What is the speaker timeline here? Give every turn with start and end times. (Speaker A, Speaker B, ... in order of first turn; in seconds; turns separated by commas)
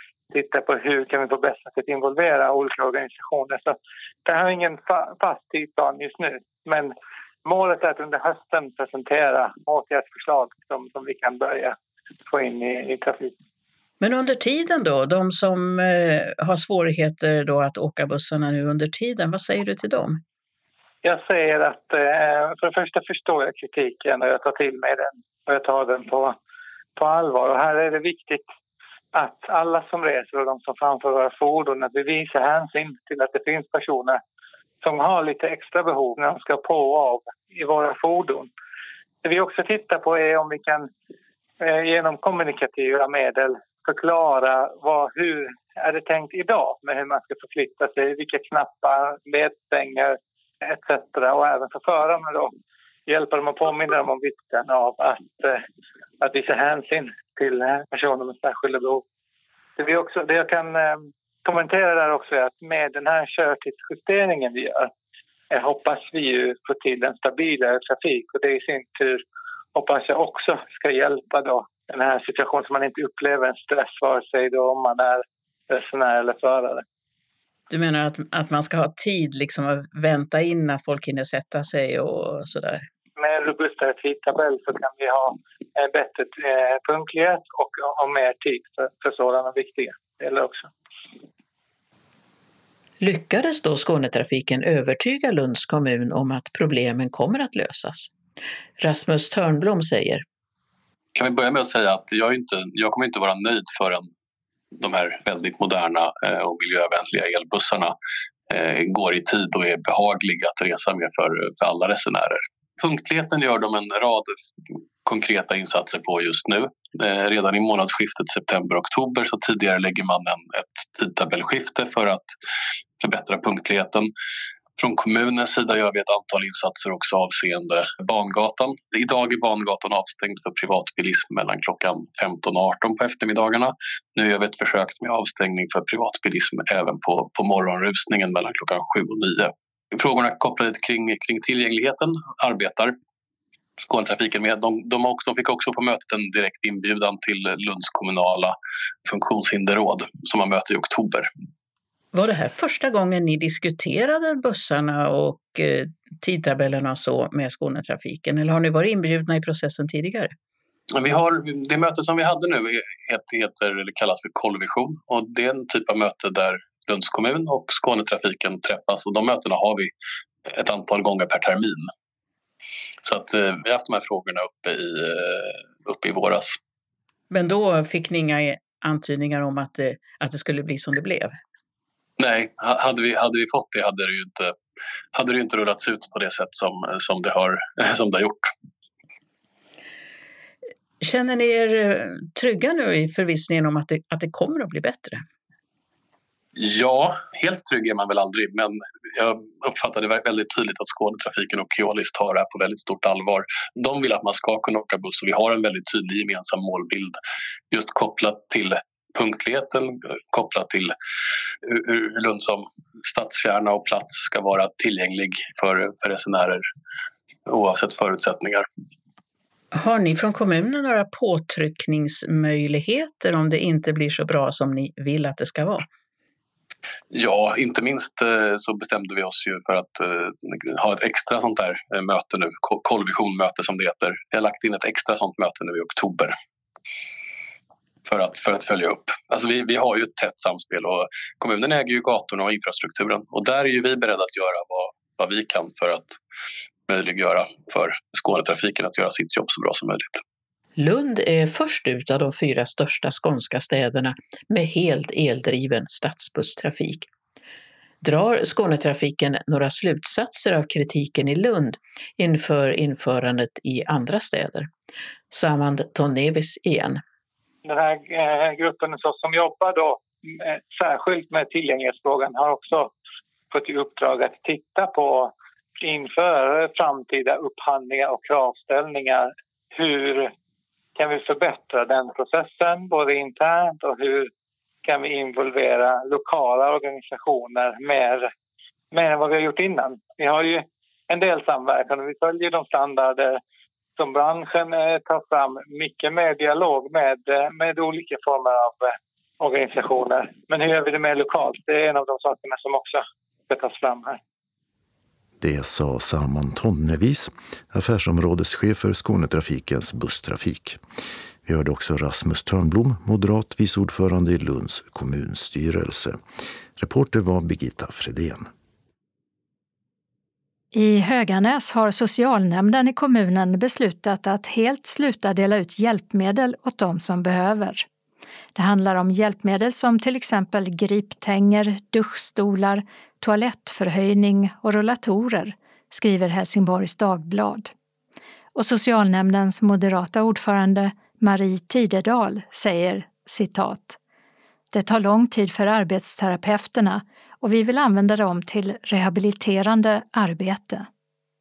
Speaker A: 0.3-11.8, Speaker A: 12.3-13.3, Speaker B: 14.0-20.2, Speaker A: 21.0-26.3, Speaker A: 26.9-28.4, Speaker A: 29.1-34.2, Speaker A: 34.8-38.5, Speaker A: 39.2-40.9, Speaker A: 41.6-52.5, Speaker A: 53.1-55.6, Speaker A: 56.2-59.0, Speaker A: 59.8-64.9, Speaker A: 65.5-69.2, Speaker A: 69.7-76.8, Speaker B: 77.7-82.8, Speaker A: 83.2-90.7, Speaker B: 93.0-98.1, Speaker B: 98.8-100.2, Speaker C: 101.1-104.1, Speaker C: 104.8-107.9, Speaker C: 108.5-114.4, Speaker C: 115.0-122.3, Speaker C: 123.0-124.1, Speaker C: 124.8-142.9, Speaker C: 143.8-151.3, Speaker B: 152.1-160.3, Speaker C: 160.9-169.9, Speaker C: 170.4-171.9, Speaker C: 173.0-176.6, Speaker B: 177.3-181.4, Speaker C: 182.2-184.6, Speaker C: 185.1-188.5, Speaker B: 191.0-195.2, Speaker C: 196.6-207.2, Speaker C: 207.7-210.9, Speaker C: 211.6-216.6, Speaker C: 217.5-218.7, Speaker B: 219.7-225.9, Speaker C: 227.1-236.3, Speaker C: 238.1-246.2, Speaker C: 246.9-250.2, Speaker B: 250.8-257.1, Speaker B: 258.0-264.7, Speaker B: 265.3-267.0, Speaker A: 267.6-272.9, Speaker A: 273.5-280.3, Speaker A: 280.9-284.3, Speaker A: 284.8-288.3, Speaker A: 288.9-293.4, Speaker A: 294.0-304.2, Speaker D: 305.4-310.8, Speaker D: 311.4-316.2, Speaker D: 316.8-318.5, Speaker E: 320.7-327.9, Speaker E: 328.5-337.7, Speaker E: 338.5-344.0, Speaker E: 344.7-350.9